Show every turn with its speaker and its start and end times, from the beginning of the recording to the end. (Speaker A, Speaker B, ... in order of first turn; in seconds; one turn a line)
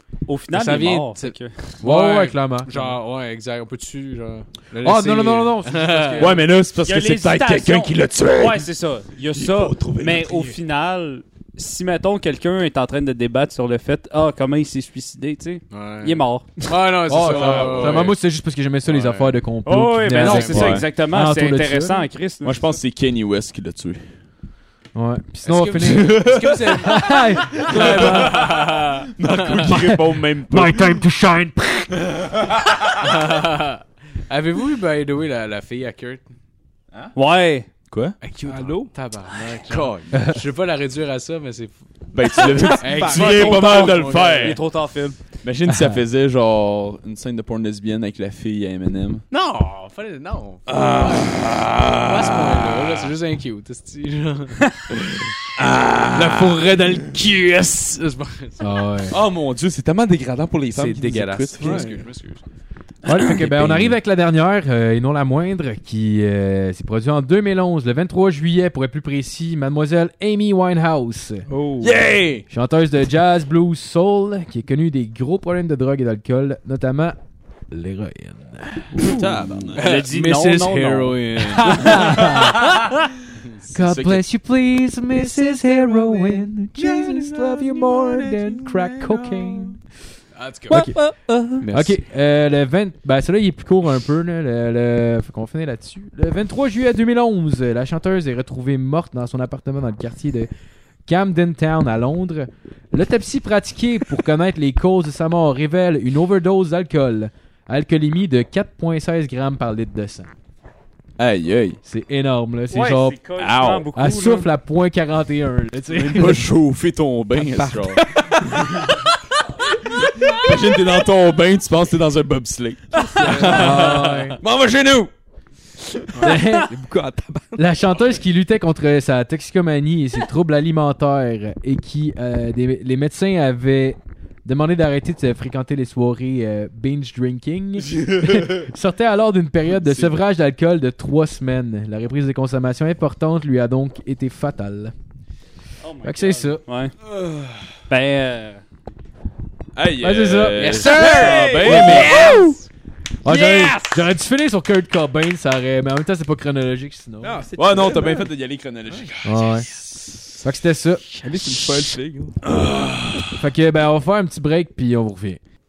Speaker A: 0.3-1.6
Speaker B: 0.5-6.3
Speaker C: 1.8-2.7
Speaker C: 4.8-6.4
Speaker D: 6.2-8.7
Speaker A: 6.2-16.7
Speaker D: 9.3-10.6
Speaker B: 15.7-18.2
Speaker C: 17.1-22.0
Speaker D: 17.3-18.1
Speaker B: 18.9-19.4
Speaker A: 19.7-22.6
Speaker B: 20.1-20.8
Speaker D: 20.5-20.9
Speaker D: 22.4-24.1
Speaker C: 24.9-28.5
Speaker B: 25.4-29.8
Speaker D: 25.8-26.6
Speaker D: 27.7-31.0
Speaker C: 29.7-32.0
Speaker D: 32.2-32.8
Speaker B: 33.0-36.2
Speaker A: 37.1-37.7
Speaker D: 37.9-38.2
Speaker B: 38.2-44.6
Speaker E: 38.5-38.9
Speaker D: 39.7-40.2
Speaker D: 42.1-44.6
Speaker E: 42.8-43.3
Speaker A: 43.1-45.3
Speaker D: 45.4-49.2
Speaker C: 45.7-46.0
Speaker B: 49.3-54.7
Speaker D: 50.7-53.1
Speaker D: 55.1-56.8
Speaker B: 56.1-58.9
Speaker C: 58.6-59.1
Speaker D: 59.1-61.9
Speaker B: 60.7-62.5
Speaker E: 61.6-62.0
Speaker C: 63.0-71.5
Speaker D: 63.4-64.0
Speaker E: 71.5-72.0
Speaker D: 71.8-72.4
Speaker C: 72.5-77.2
Speaker C: 77.7-79.2
Speaker D: 79.0-80.0
Speaker B: 79.8-82.0
Speaker A: 79.8-82.2
Speaker C: 81.6-82.9
Speaker D: 83.7-84.2
Speaker C: 83.7-89.8
Speaker B: 85.9-86.3
Speaker B: 86.8-89.4
Speaker B: 90.3-90.9
Speaker C: 90.7-91.0
Speaker A: 90.7-91.7
Speaker B: 91.6-92.0
Speaker C: 91.7-100.5
Speaker C: 101.1-110.3
Speaker D: 111.2-111.8
Speaker C: 111.8-113.2
Speaker A: 112.7-114.5
Speaker D: 113.4-113.9
Speaker C: 114.0-116.5
Speaker D: 115.9-119.1
Speaker E: 117.5-118.2
Speaker D: 119.8-125.1
Speaker B: 123.2-123.9
Speaker C: 123.2-124.4
Speaker C: 126.2-126.7
Speaker E: 126.2-127.5
Speaker C: 127.5-144.9
Speaker D: 139.8-140.2
Speaker A: 145.8-147.0
Speaker C: 146.0-146.6
Speaker D: 147.1-147.7
Speaker A: 147.9-148.6
Speaker D: 149.8-152.4
Speaker C: 150.0-151.0
Speaker B: 150.6-152.6
Speaker E: 151.0-152.6
Speaker C: 153.2-157.4
Speaker D: 153.3-153.5
Speaker E: 157.2-158.3
Speaker D: 157.6-160.3
Speaker C: 159.2-159.7
Speaker C: 160.3-161.2
Speaker E: 161.2-162.4
Speaker D: 162.4-163.4
Speaker C: 163.3-165.4